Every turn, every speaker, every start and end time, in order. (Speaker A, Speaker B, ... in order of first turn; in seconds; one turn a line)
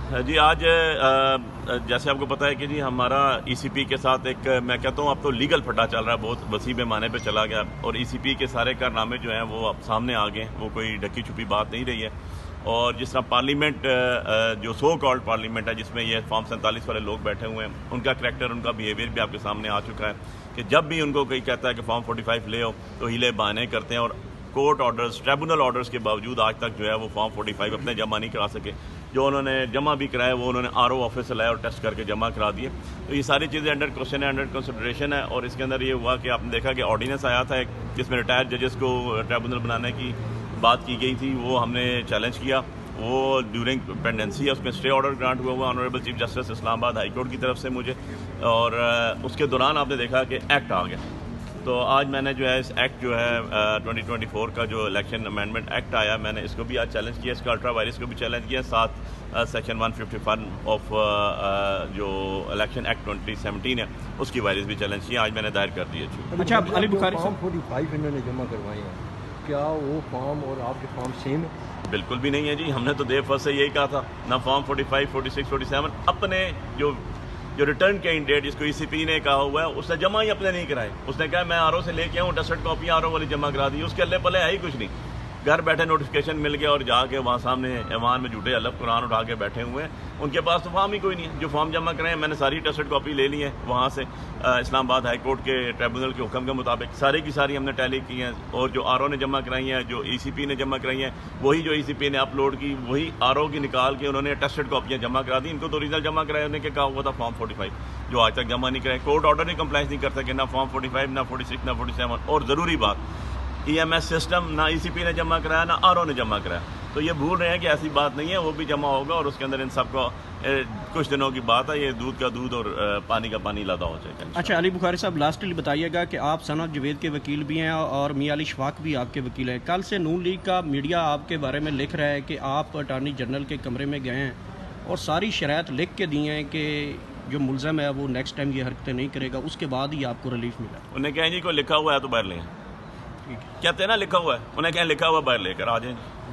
Speaker A: 0.1-12.1
Speaker A: 12.7-51.0
Speaker A: 51.6-66.3
Speaker B: 66.3-71.5
Speaker C: 66.4-67.4
Speaker A: 71.9-77.0
Speaker A: 77.6-84.9
Speaker A: 85.4-113.0
Speaker A: 113.7-124.6
Speaker C: 124.3-140.8
Speaker A: 140.9-142.5
Speaker A: 143.6-146.0